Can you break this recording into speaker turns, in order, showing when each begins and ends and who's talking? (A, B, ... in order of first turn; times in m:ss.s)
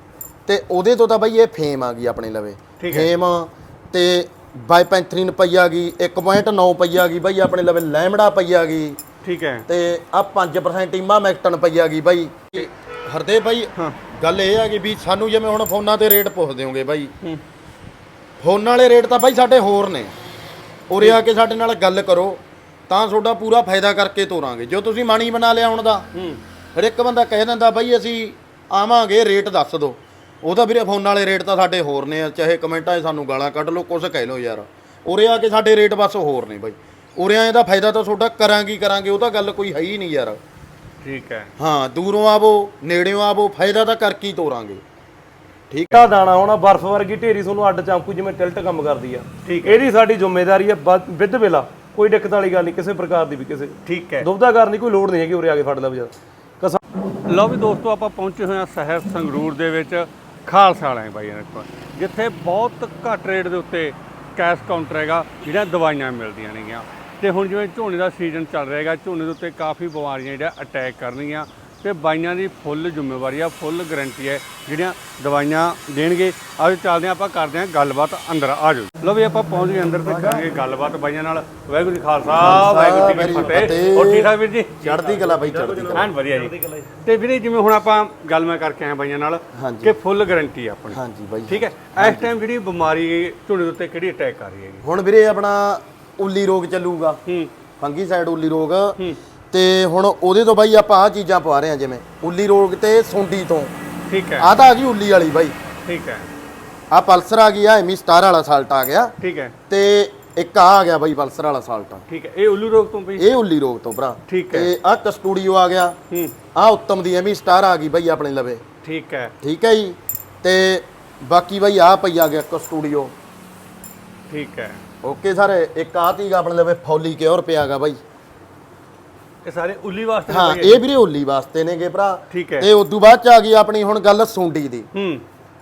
0:00.5-0:09.0 A
0:02.8-0:03.1 B
0:09.2-0:09.7 B
0:09.7-0:17.1 A
0:18.4-0:20.1 A
0:20.9-0:26.1 A
0:26.8-0:40.4 A
0:41.0-0:41.5 B
0:41.6-0:44.8 A
0:45.7-0:46.0 A
0:45.9-0:56.8 C
0:49.4-0:49.8 B
0:53.9-0:54.3 B
0:57.3-1:24.8 B
1:22.4-1:24.3 A
1:23.2-1:23.8 C
1:24.8-1:26.1 A
1:24.8-1:27.0 C
1:25.9-1:26.5 B
1:27.0-1:34.8 B
1:29.5-1:29.9 A
1:30.9-1:32.3 A
1:34.8-1:37.2 A
1:37.3-1:37.5 B
1:37.8-1:39.0 A
1:39.5-1:43.7 A
1:44.1-1:44.5 B
1:44.4-1:45.6 A
1:45.9-1:46.3 B
1:46.9-1:49.1 A
1:49.2-1:49.6 B
1:49.7-1:52.0 A
1:52.1-1:53.3 B
1:53.2-1:56.0 A
1:54.3-1:54.7 B
1:56.1-1:56.4 B
1:56.6-1:58.6 A
1:58.8-1:59.3 B
1:59.4-2:03.1 A
2:04.3-2:04.8 B
2:05.0-2:08.0 A
2:09.4-2:10.8 B
2:10.3-2:14.9 A
2:12.3-2:12.7 B
2:14.9-2:15.2 B